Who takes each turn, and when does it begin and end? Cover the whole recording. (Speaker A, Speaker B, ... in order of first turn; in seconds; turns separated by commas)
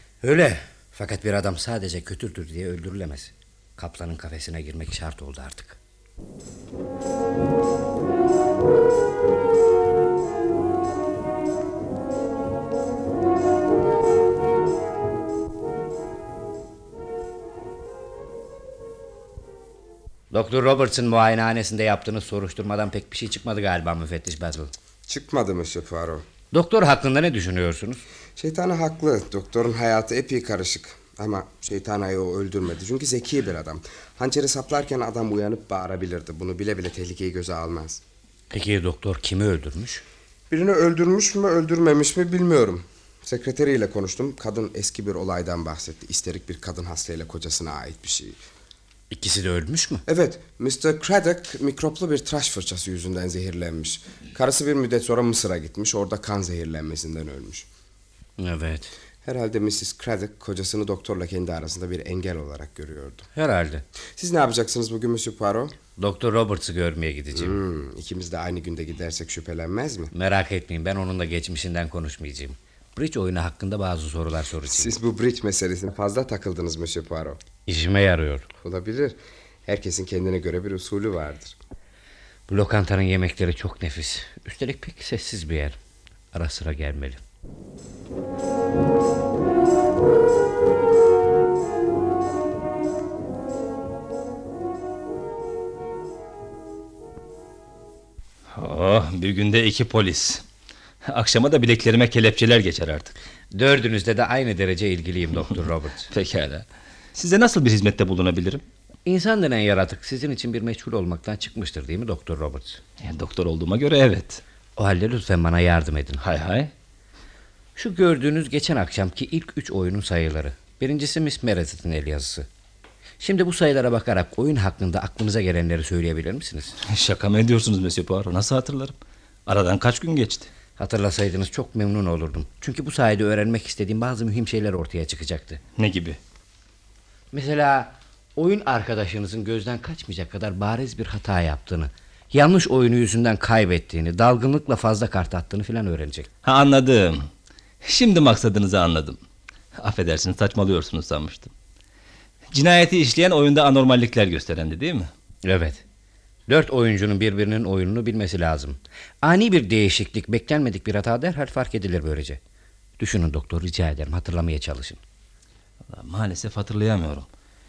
Speaker A: 0.2-5.8, Speaker A: 20.3-24.7, Speaker B: 25.1-26.2, Speaker A: 26.5-28.0, Speaker B: 28.4-38.0, Speaker A: 38.5-40.0, Speaker B: 40.5-48.4, Speaker A: 49.1-50.0, Speaker B: 50.1-57.7, Speaker A: 58.4-58.9, Speaker B: 59.2-63.3, Speaker A: 63.3-63.8, Speaker B: 64.2-65.7, Speaker A: 66.0-67.6, Speaker B: 67.3-70.1, Speaker A: 70.1-75.0, Speaker B: 74.7-77.4, Speaker A: 77.7-78.5, Speaker B: 78.6-81.5, Speaker A: 82.5-85.8, Speaker A: 86.3-87.2, Speaker C: 98.5-100.4, Speaker C: 101.0-103.1, Speaker A: 103.5-106.1, Speaker C: 106.1-108.6, Speaker A: 109.0-112.8, Speaker C: 113.0-114.4, Speaker A: 114.8-116.2, Speaker C: 116.2-116.7, Speaker A: 117.8-122.5, Speaker A: 123.2-126.8, Speaker C: 126.8-130.5, Speaker A: 130.8-135.6, Speaker C: 135.8-136.2, Speaker A: 137.3-146.3, Speaker C: 146.4-147.3, Speaker C: 147.8-149.2, Speaker C: 149.8-151.5, Speaker C: 152.5-155.1, Speaker A: 155.4-155.8, Speaker A: 156.5-162.4, Speaker A: 163.0-165.0, Speaker C: 165.9-167.3